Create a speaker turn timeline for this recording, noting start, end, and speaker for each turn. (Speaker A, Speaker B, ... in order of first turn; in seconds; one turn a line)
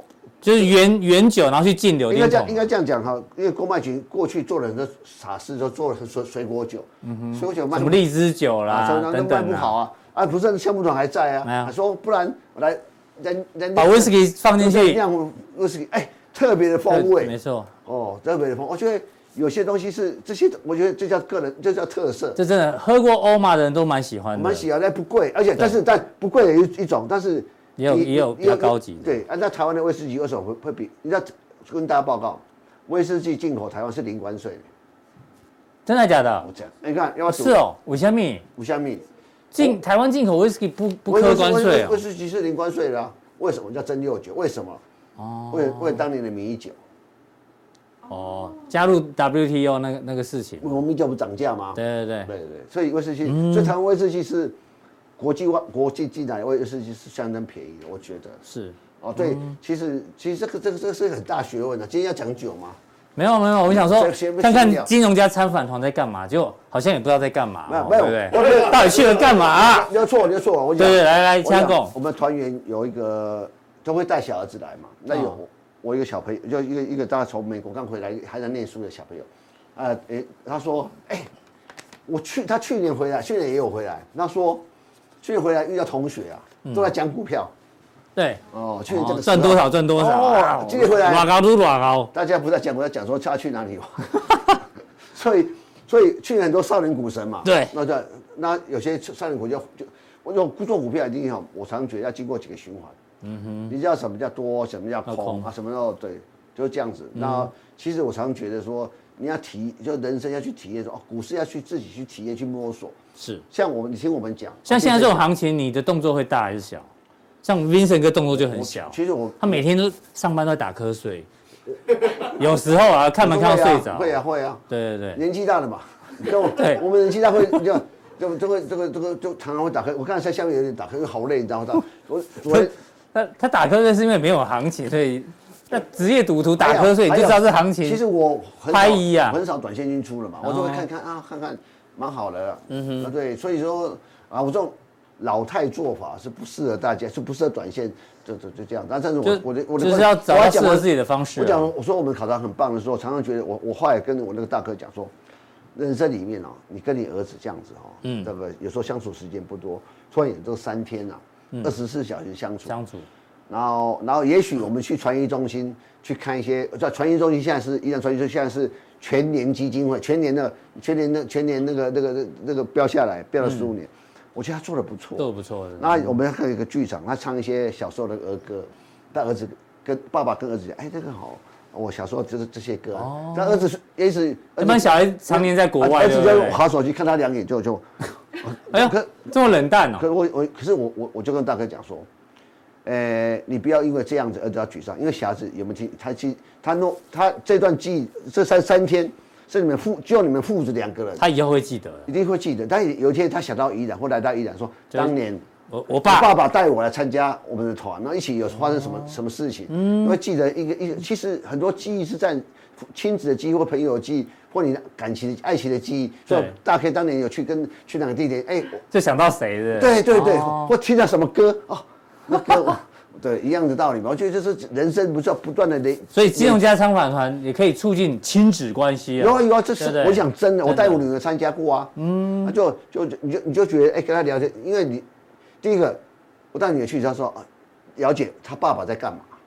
Speaker A: 0.4-2.6
Speaker B: 2.1-8.0
Speaker A: 7.0-9.7
Speaker B: 8.7-17.3
Speaker A: 11.4-11.7
Speaker A: 13.7-15.0
Speaker A: 16.9-17.7
Speaker B: 17.8-22.4
Speaker A: 22.4-24.6
Speaker B: 24.3-34.6
Speaker A: 27.8-29.1
Speaker A: 35.9-36.5
Speaker B: 36.4-37.6
Speaker A: 37.3-38.4
Speaker B: 38.6-39.0
Speaker A: 39.5-42.0
Speaker B: 41.1-44.8
Speaker A: 45.2-46.0
Speaker B: 45.5-46.8
Speaker A: 48.1-50.8
Speaker B: 50.6-54.5
Speaker A: 51.8-52.3
Speaker A: 53.2-53.7
Speaker B: 55.2-58.4
Speaker A: 58.5-59.6
Speaker B: 59.0-62.8
Speaker A: 63.1-69.9
Speaker B: 63.7-64.9
Speaker B: 67.7-81.3
Speaker A: 70.8-71.9
Speaker A: 75.1-75.4
Speaker B: 82.0-84.6
Speaker B: 85.2-87.5
Speaker A: 86.7-86.9
Speaker A: 88.2-92.1
Speaker B: 88.5-91.3
Speaker B: 92.1-94.6
Speaker B: 95.1-103.0
Speaker A: 97.4-97.7
Speaker A: 103.2-103.7
Speaker B: 103.7-113.0
Speaker A: 105.0-105.5
Speaker A: 107.1-107.5
Speaker A: 113.2-113.4
Speaker B: 113.5-115.2
Speaker A: 114.7-116.9
Speaker A: 117.4-121.3
Speaker B: 118.3-119.6
Speaker B: 122.0-122.4
Speaker A: 122.1-124.2
Speaker B: 123.2-124.6
Speaker A: 124.7-125.2
Speaker B: 125.2-132.7
Speaker A: 126.5-126.8
Speaker A: 132.5-138.0
Speaker B: 136.6-155.1
Speaker A: 138.7-139.4
Speaker A: 140.4-140.8
Speaker A: 142.7-143.1
Speaker A: 149.2-151.7
Speaker B: 155.7-162.7
Speaker A: 158.0-158.3
Speaker A: 162.7-163.1
Speaker B: 163.5-175.3
Speaker A: 173.4-173.7
Speaker A: 175.2-176.1
Speaker B: 175.8-187.9
Speaker A: 182.9-183.6
Speaker A: 184.6-186.6
Speaker B: 188.4-189.3
Speaker A: 188.7-190.1
Speaker B: 190.0-192.1
Speaker B: 192.8-201.2
Speaker A: 201.2-202.1
Speaker B: 202.1-205.4
Speaker A: 205.7-206.3
Speaker B: 206.0-218.8
Speaker A: 209.7-210.2
Speaker A: 216.3-216.5
Speaker A: 218.9-220.7
Speaker B: 219.8-226.6
Speaker A: 226.1-231.0
Speaker B: 229.2-235.0
Speaker A: 232.0-232.5
Speaker B: 235.6-236.0
Speaker B: 236.5-237.4
Speaker B: 238.0-239.3